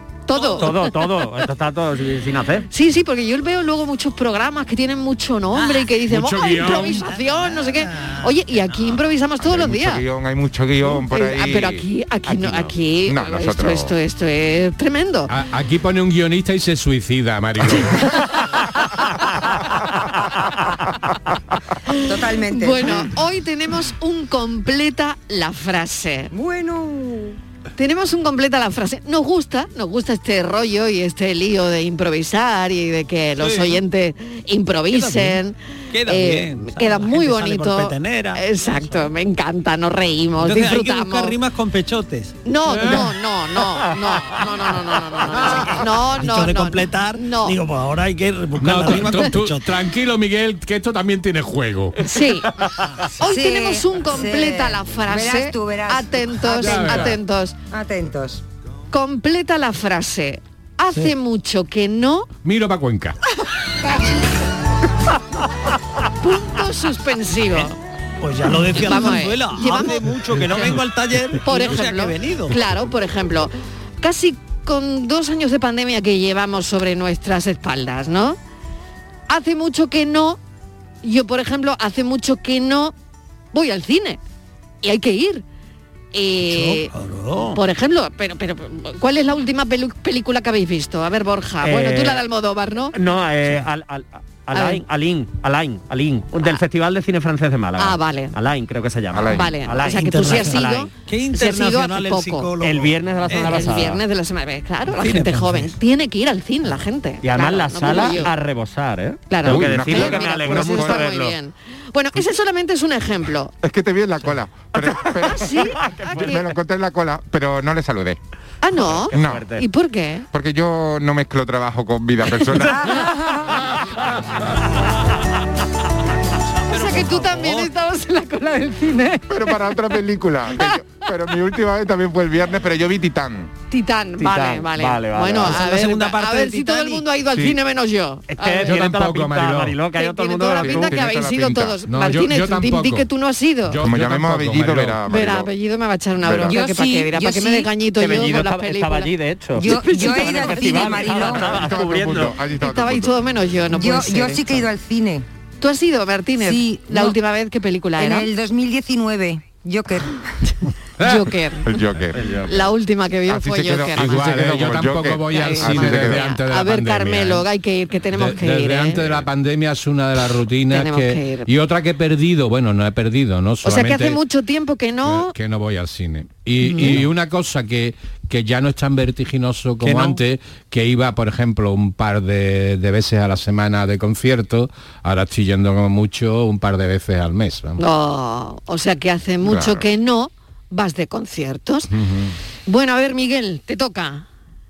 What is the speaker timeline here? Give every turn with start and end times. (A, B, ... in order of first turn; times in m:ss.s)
0:00.3-0:00.9 A
0:00.3-0:00.7 B
0:00.5-0:02.7 C
0:02.7-0:10.0 A
0:05.6-0:05.8 B
0:06.0-0:07.1 D
0:06.6-0:08.6 B
0:09.4-0:13.9 E
0:10.8-0:15.3 A
0:15.3-0:18.1 D
0:21.9-0:26.3 A
0:22.1-0:23.1 F
0:26.3-0:27.4 F
0:27.8-0:35.6 A
0:33.4-0:33.8 B
0:34.9-0:39.1 B
0:36.1-0:41.4 A
0:40.4-0:42.4 B
0:42.4-0:47.6 A
0:45.3-0:49.8 B
0:48.6-0:52.0 D
0:52.0-0:52.5 A
0:53.2-0:57.6 A
0:53.2-0:57.2 F
0:56.5-0:57.2 D
0:57.7-0:58.4 F
0:58.9-1:02.3 A
1:02.4-1:03.2 D
1:06.2-1:07.8 A
1:07.5-1:12.6 B
1:08.8-1:10.8 A
1:11.4-1:18.4 A
1:19.3-1:20.4 A
1:21.0-1:22.9 A
1:23.5-1:24.2 A
1:24.8-1:25.4 A
1:26.1-1:26.9 A
1:26.4-1:27.6 B
1:27.5-1:33.0 A
1:31.6-1:32.2 C
1:32.9-1:40.9 C
1:34.5-1:34.8 A
1:37.8-1:38.3 A
1:39.1-1:39.5 E
1:39.3-1:42.5 A
1:39.8-1:43.9 B
1:42.6-1:44.0 C
1:43.3-1:48.3 A
1:44.9-1:45.8 B
1:47.2-1:51.4 C
1:49.3-1:53.5 A
1:49.4-1:51.1 E
1:53.6-1:58.2 E
1:55.0-1:56.4 A
1:55.8-1:56.5 C
1:58.6-2:00.3 A
1:58.8-1:59.6 C
1:59.1-1:59.5 E
2:00.3-2:02.9 E
2:02.5-2:03.6 F
2:06.7-2:07.7 B
2:06.7-2:09.6 A
2:09.3-2:13.5 E
2:13.7-2:18.8 A
2:14.2-2:15.6 C
2:15.4-2:17.1 B
2:18.3-2:21.0 C
2:18.6-2:19.8 D
2:20.0-2:23.8 A
2:20.6-2:21.8 E
2:21.9-2:23.1 D
2:23.7-2:25.0 D
2:23.8-2:25.5 E
2:25.1-2:31.4 A
2:26.2-2:26.6 E
2:26.5-2:27.7 F
2:28.0-2:32.4 C
2:29.6-2:31.6 F
2:31.2-2:33.2 E
2:32.6-2:34.6 A
2:33.7-2:35.2 F
2:35.6-2:38.3 A
2:36.4-2:37.2 F
2:38.0-2:40.2 F
2:41.0-2:41.3 D
2:41.0-2:41.7 A
2:41.7-2:42.4 E
2:42.1-2:42.7 C
2:42.5-2:44.3 A
2:43.3-2:46.3 E
2:43.9-2:47.5 D
2:45.3-2:49.2 A
2:48.1-2:54.2 D
2:50.7-2:51.5 A
2:53.6-2:55.3 A
2:55.0-3:07.8 D
2:56.6-2:57.0 A
2:59.8-3:00.2 B
3:07.8-3:11.9 A
3:09.4-3:09.8 E
3:11.9-3:12.3 D
3:12.7-3:14.3 A